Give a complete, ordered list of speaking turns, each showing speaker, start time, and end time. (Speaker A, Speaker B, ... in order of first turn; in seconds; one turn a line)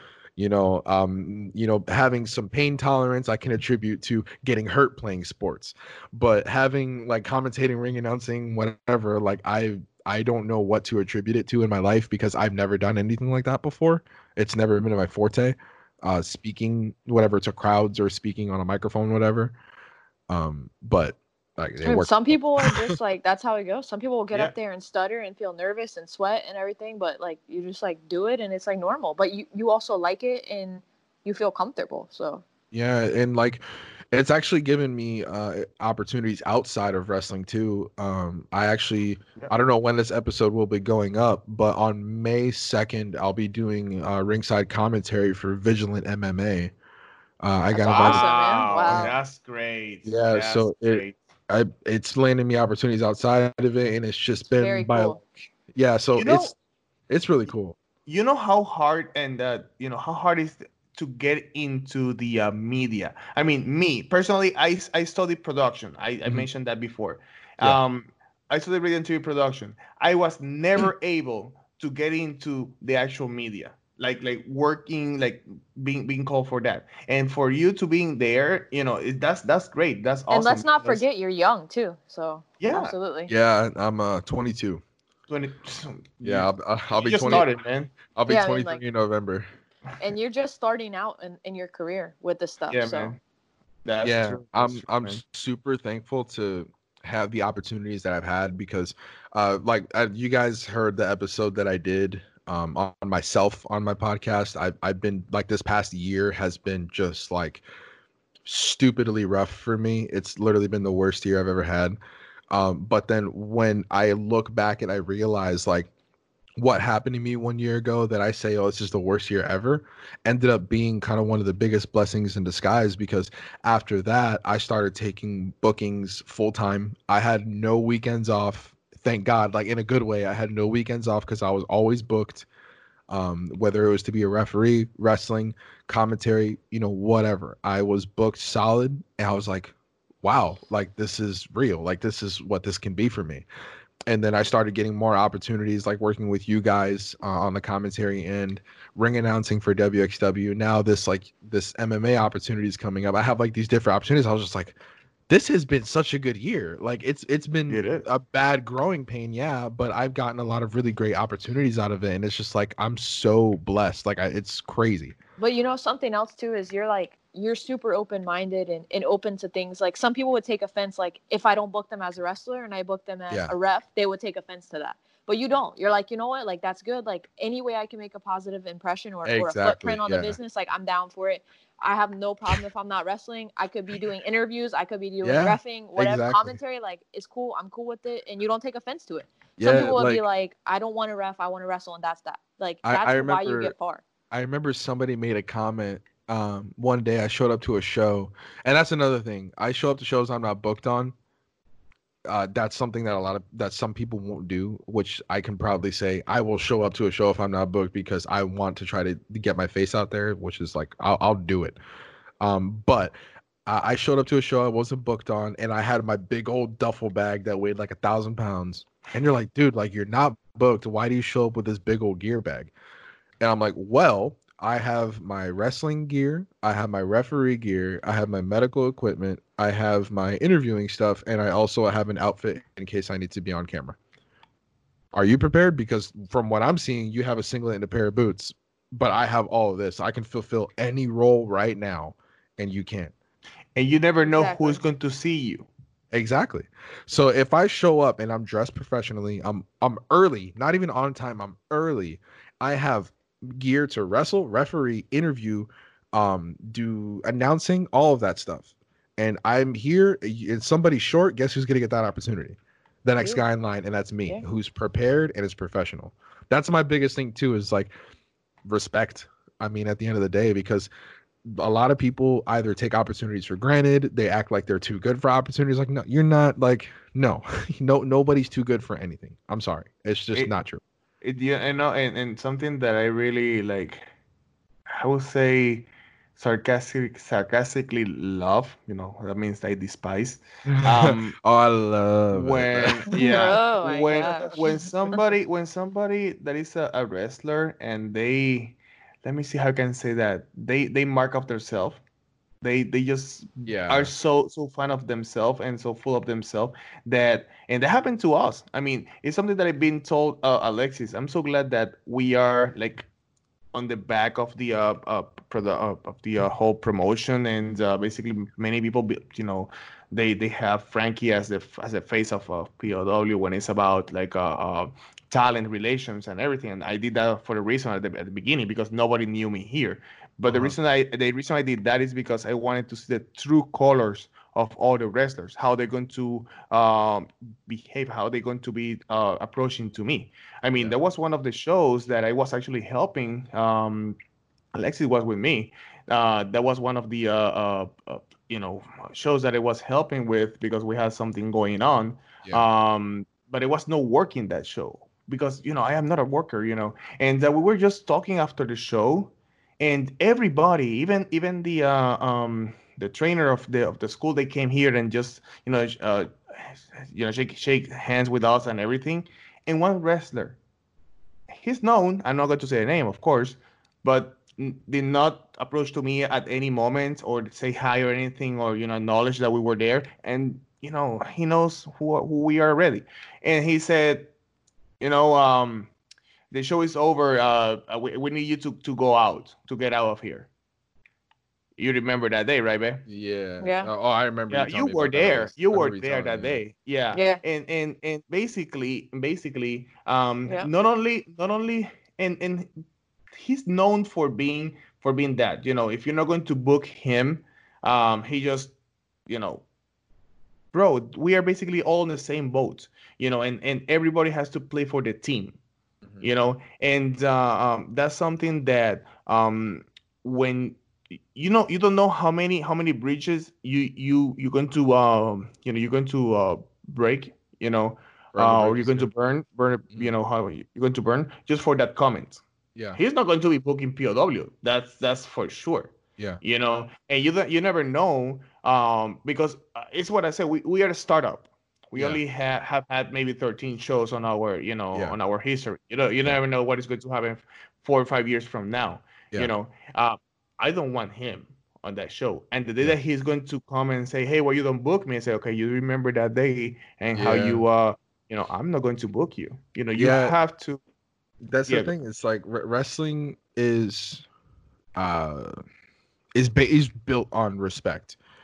Speaker A: 0.4-19.6
Speaker A: 20.3-22.9
Speaker B: 21.8-32.4
Speaker A: 32.7-46.7
Speaker A: 47.4-48.3
Speaker B: 47.7-49.1
Speaker C: 47.9-51.2
Speaker A: 48.8-49.1
Speaker A: 50.0-55.2
Speaker B: 54.6-55.2
Speaker A: 55.7-56.5
Speaker C: 56.2-56.5
Speaker A: 57.1-57.8
Speaker C: 58.0-81.0
Speaker B: 80.3-83.3
Speaker C: 82.6-82.9
Speaker A: 83.3-84.8
Speaker C: 85.3-87.9
Speaker A: 86.2-87.5
Speaker A: 88.1-89.5
Speaker B: 88.3-88.8
Speaker B: 90.0-93.1
Speaker C: 92.7-93.2
Speaker C: 93.8-95.2
Speaker A: 94.0-107.6
Speaker A: 108.4-112.0
Speaker A: 112.5-115.9
Speaker A: 116.6-132.5
Speaker A: 133.1-143.4
Speaker A: 144.1-154.8
Speaker A: 155.3-165.2
Speaker C: 157.7-158.1
Speaker B: 165.4-194.0
Speaker A: 173.3-173.5
Speaker A: 179.2-180.4
Speaker A: 185.2-186.6
Speaker A: 189.6-190.2
Speaker A: 192.8-193.7
Speaker A: 194.3-201.1
Speaker A: 202.3-211.8
Speaker A: 212.4-222.7
Speaker A: 223.4-234.0
Speaker A: 235.1-243.1
Speaker C: 243.7-245.7
Speaker B: 244.2-244.8
Speaker A: 246.1-267.9
Speaker B: 263.2-263.4
Speaker A: 268.6-270.9
Speaker A: 271.4-280.8
Speaker C: 281.2-284.0
Speaker C: 284.9-291.4
Speaker A: 290.6-293.4
Speaker C: 292.3-302.0
Speaker B: 293.1-294.7
Speaker C: 302.6-313.1
Speaker A: 303.6-304.1
Speaker C: 313.7-344.2
Speaker A: 330.5-330.8
Speaker C: 344.7-370.6
Speaker C: 371.5-384.3
Speaker C: 385.0-385.9
Speaker C: 386.5-390.5
Speaker C: 391.8-393.0
Speaker A: 393.1-396.6
Speaker B: 393.6-393.9
Speaker C: 394.5-402.7
Speaker B: 397.1-397.4
Speaker C: 403.3-408.7
Speaker C: 409.3-409.6
Speaker C: 410.7-415.6
Speaker C: 416.2-420.8
Speaker C: 421.3-432.4
Speaker A: 428.3-429.1
Speaker C: 432.9-460.8
Speaker A: 457.1-457.6
Speaker A: 459.9-460.4
Speaker A: 461.4-464.2
Speaker A: 464.9-465.5
Speaker A: 466.3-468.2